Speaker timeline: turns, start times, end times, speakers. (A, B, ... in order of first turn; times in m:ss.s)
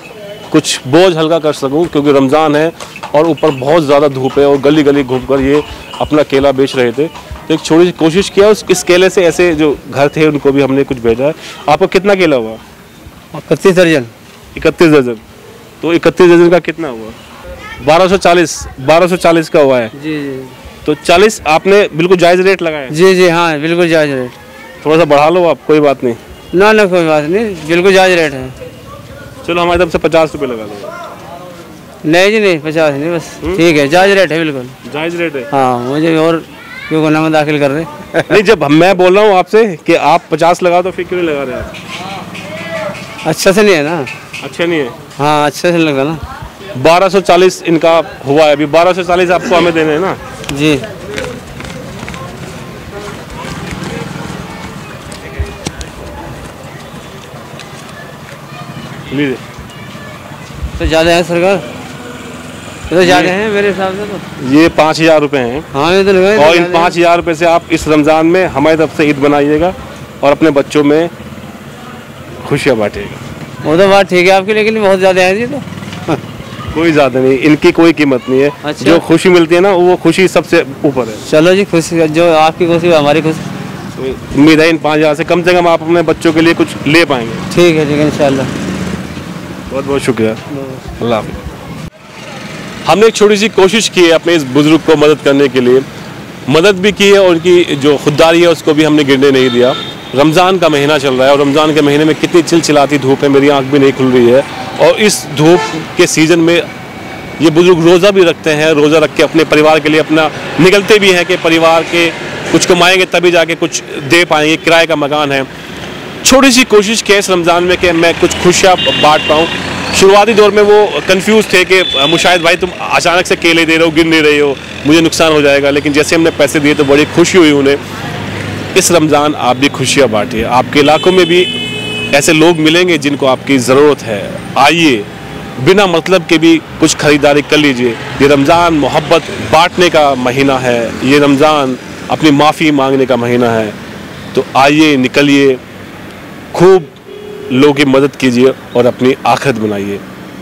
0:00.5-0:12.6 A
0:13.3-0:14.1 B
0:14.5-0:15.2 A
0:15.8-0:17.2 A
0:17.8-0:19.9 A
0:19.9-0:20.6 B
0:20.8-0:22.9 A
0:22.9-0:24.3 B
0:24.8-0:26.2 A
0:26.5-0:28.5 B
0:29.4-0:30.9 A
0:32.0-0:34.7 B
0:34.8-0:35.5 A
0:35.5-0:38.4 B
0:38.3-0:41.7 A
0:43.2-0:44.1 B
0:44.4-0:44.9 A
0:45.2-0:46.2 B
0:46.8-0:50.2 A
0:50.5-0:50.8 B
0:59.1-0:59.4 A
1:00.8-1:01.6 B
1:02.9-1:04.2 B
1:03.0-1:03.4 A
1:04.4-1:05.7 A
1:05.7-1:06.9 B
1:06.4-1:11.1 A
1:12.4-1:13.2 A
1:13.6-1:16.2 B
1:16.7-1:21.2 A
1:18.6-1:19.0 B
1:21.2-1:23.4 B
1:24.0-1:27.4 A
1:27.5-1:28.5 B
1:29.7-1:30.4 A
1:31.0-1:31.4 A
1:32.8-1:35.8 A
1:36.5-1:46.6 A
1:47.4-1:55.5 A
1:56.2-2:07.8 A
2:08.7-2:11.5 A
2:12.1-2:23.8 A
2:24.3-2:25.6 A
2:26.5-2:26.9 A
2:27.5-2:30.0 A